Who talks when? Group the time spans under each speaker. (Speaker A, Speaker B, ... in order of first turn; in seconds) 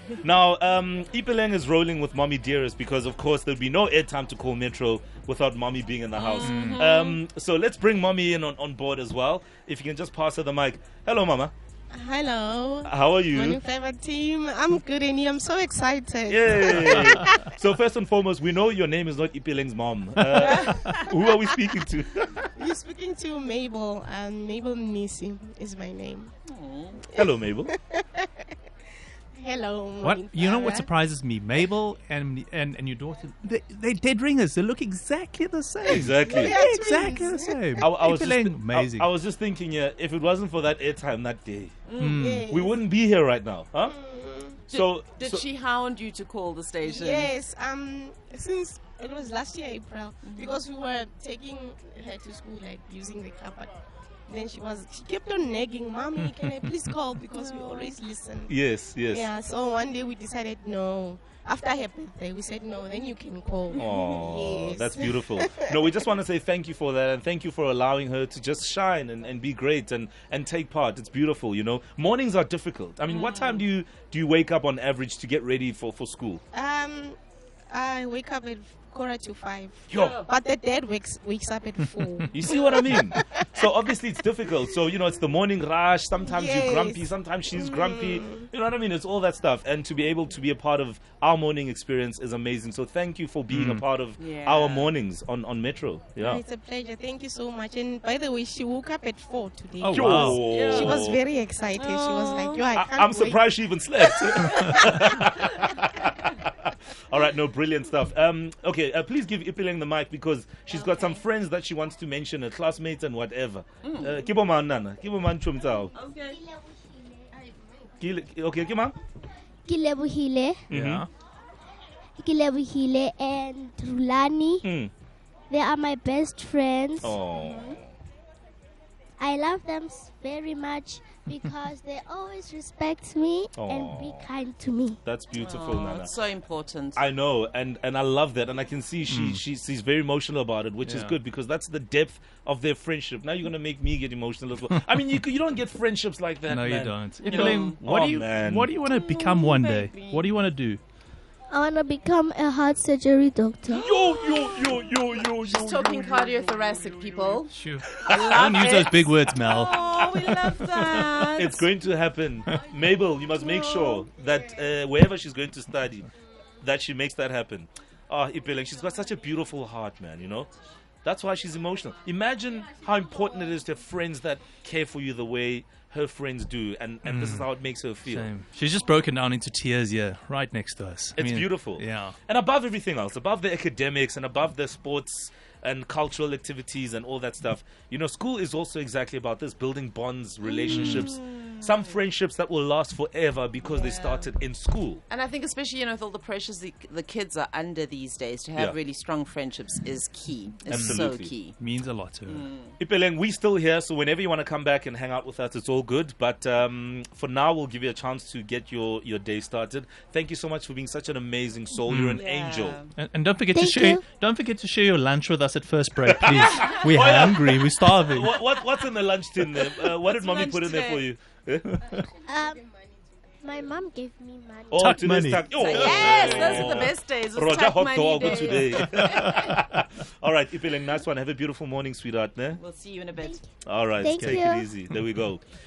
Speaker A: 0.2-11.5, 12.8-13.6, 16.3-22.5, 27.1-27.7, 35.9-36.6, 37.8-41.8, 42.5-43.9, 44.7-45.5, 58.5-59.3, 63.7-76.4, 79.9-80.2, 82.3-96.4, 99.9-101.2, 102.7-115.9, 118.0-119.0, 120.7-121.0, 124.6-124.9, 127.0-127.9, 133.6-134.3, 135.0-136.2, 136.9-148.7, 153.7-156.5, 157.9-158.5, 159.8-160.3, 161.3-166.1, 166.6-170.5, 171.0-178.3, 181.2-195.0, 200.7-201.3, 202.8-212.8, 216.1-222.1, 224.7-232.6, 233.6-235.4
Speaker B: 6.1-7.2, 26.5-27.0, 41.9-42.2, 44.7-47.3, 50.2-50.6, 57.4-57.9, 73.1-73.6, 94.2-94.9, 100.2-101.0, 101.8-102.6, 113.8-114.2, 115.9-116.4, 127.3-127.8, 135.3-137.0, 147.2-147.8, 148.9-150.3, 153.7-154.8, 155.4-161.6, 163.4-164.0, 190.4-191.8, 193.6-194.3, 195.1-201.6, 202.2-202.7, 212.1-212.9, 219.8-221.0, 225.5-229.3, 232.6-233.4
Speaker C: 6.4-6.8, 20.2-21.0, 30.0-39.1, 42.0-42.5, 93.5-93.8, 99.8-100.5, 120.7-121.1, 131.2-131.5, 139.1-139.4, 140.8-141.2, 146.5-150.8, 157.5-159.8, 160.6-161.1, 177.0-177.5, 178.0-182.2, 190.7-191.1, 200.7-202.5, 211.9-212.2, 213.0-218.3, 224.8-226.7, 229.0-229.6, 234.1-235.0
Speaker D: 11.9-17.5, 20.4-20.7, 22.6-26.3, 27.0-28.5, 29.3-30.9, 36.2-37.8, 42.0-42.8, 43.8-44.6, 46.8-58.5, 59.1-66.0, 76.5-77.2, 77.7-83.5, 86.2-88.5, 96.2-103.5, 104.0-104.9, 117.6-117.9
Speaker E: 115.7-117.3, 119.7-120.6, 122.2-124.7, 125.5-127.2, 129.2-135.0, 151.5-153.8, 213.5-214.0, 222.3-222.6, 223.4-225.0, 234.0-234.7